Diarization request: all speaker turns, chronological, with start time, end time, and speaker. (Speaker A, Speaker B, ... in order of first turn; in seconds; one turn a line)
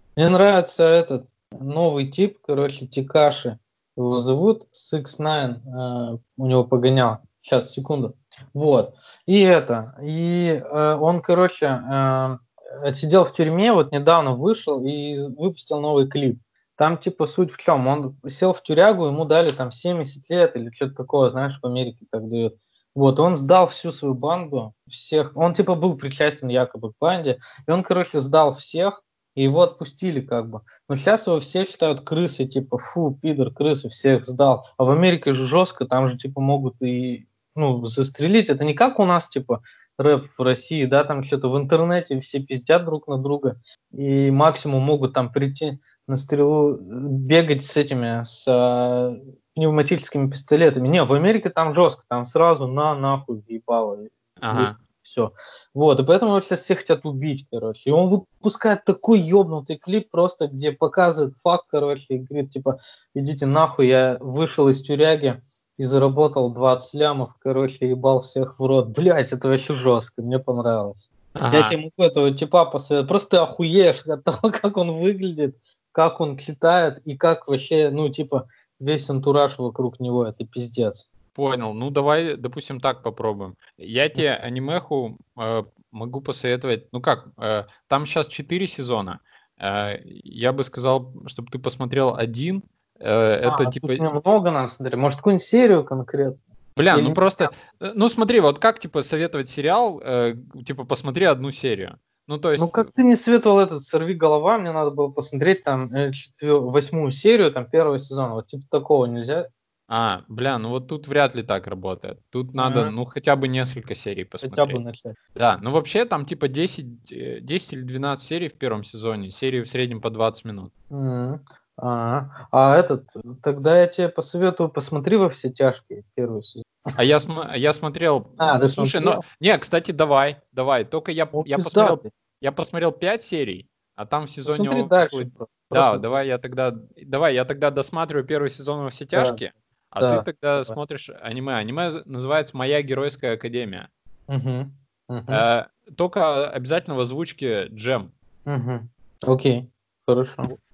Speaker A: 0.1-81.0
Speaker B: 54.4-54.8
Speaker B: 71.3-71.8
Speaker B: 81.3-94.0
Speaker A: 93.4-97.5
Speaker B: 96.8-102.9
Speaker A: 102.6-109.5
Speaker B: 109.9-114.8
Speaker A: 112.6-112.9
Speaker A: 114.4-115.2
Speaker B: 115.3-120.7
Speaker A: 120.9-126.7
Speaker B: 127.0-143.9
Speaker A: 128.4-129.2
Speaker A: 131.3-132.1
Speaker A: 134.4-136.0
Speaker A: 139.1-139.4
Speaker A: 140.0-140.8
Speaker A: 144.3-145.4
Speaker B: 145.3-148.1
Speaker A: 148.4-150.5